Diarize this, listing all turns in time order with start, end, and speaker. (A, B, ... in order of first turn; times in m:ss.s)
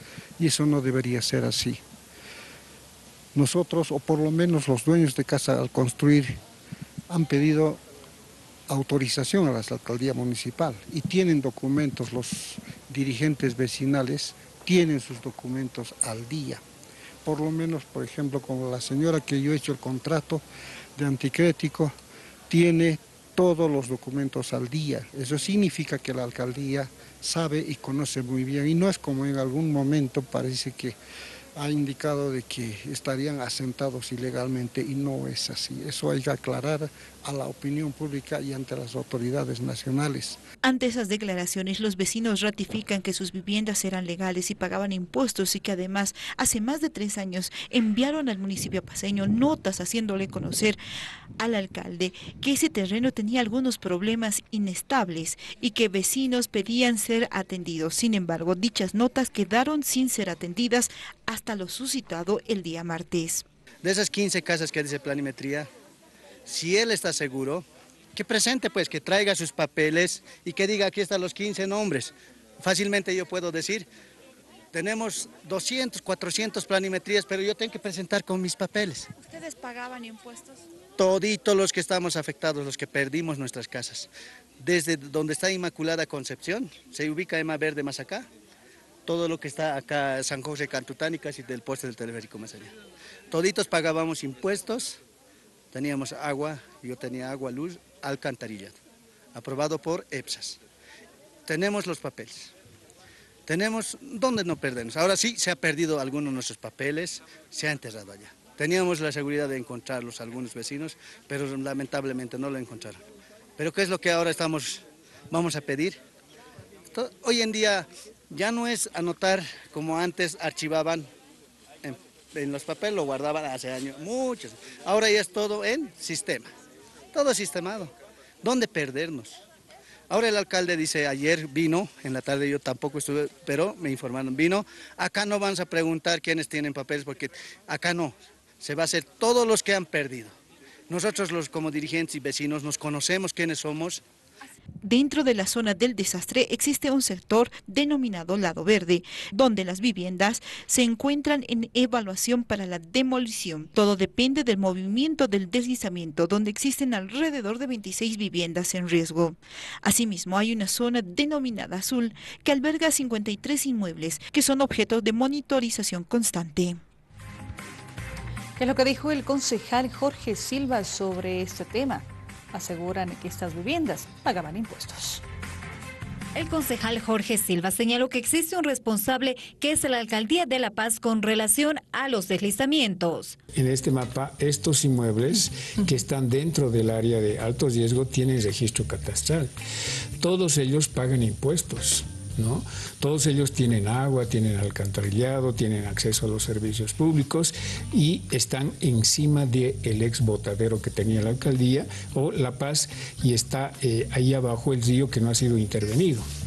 0:00.4-0:01.8 A
0:03.3-0:06.4 A
0:07.1-0:07.8 A
0:08.7-0:16.6 A
0:17.2-0:20.4 A
0:21.0-0:22.0 A
0:22.5-0:31.0 A
0:31.6-0:40.4 A
0:40.6-0:50.8 B
0:51.4-1:03.4 B
1:03.8-1:05.7 C
1:06.5-1:13.9 C
1:14.7-1:19.1 C
1:19.4-1:20.6 B
1:21.0-1:28.3 C
1:29.1-1:32.7 C
1:33.3-1:35.0 C
1:35.7-1:38.8 C
1:39.3-1:40.6 C
1:41.5-1:42.5 C
1:43.5-1:53.0 C
1:53.6-1:56.0 C
1:56.9-2:01.1 C
2:01.8-2:06.5 C
2:07.1-2:09.4 C
2:10.1-2:20.3 C
2:20.9-2:24.0 C
2:24.8-2:46.8 B
2:48.6-2:55.2 D
2:56.4-3:03.4 E
3:03.6-3:09.5 F
3:10.2-3:26.2 F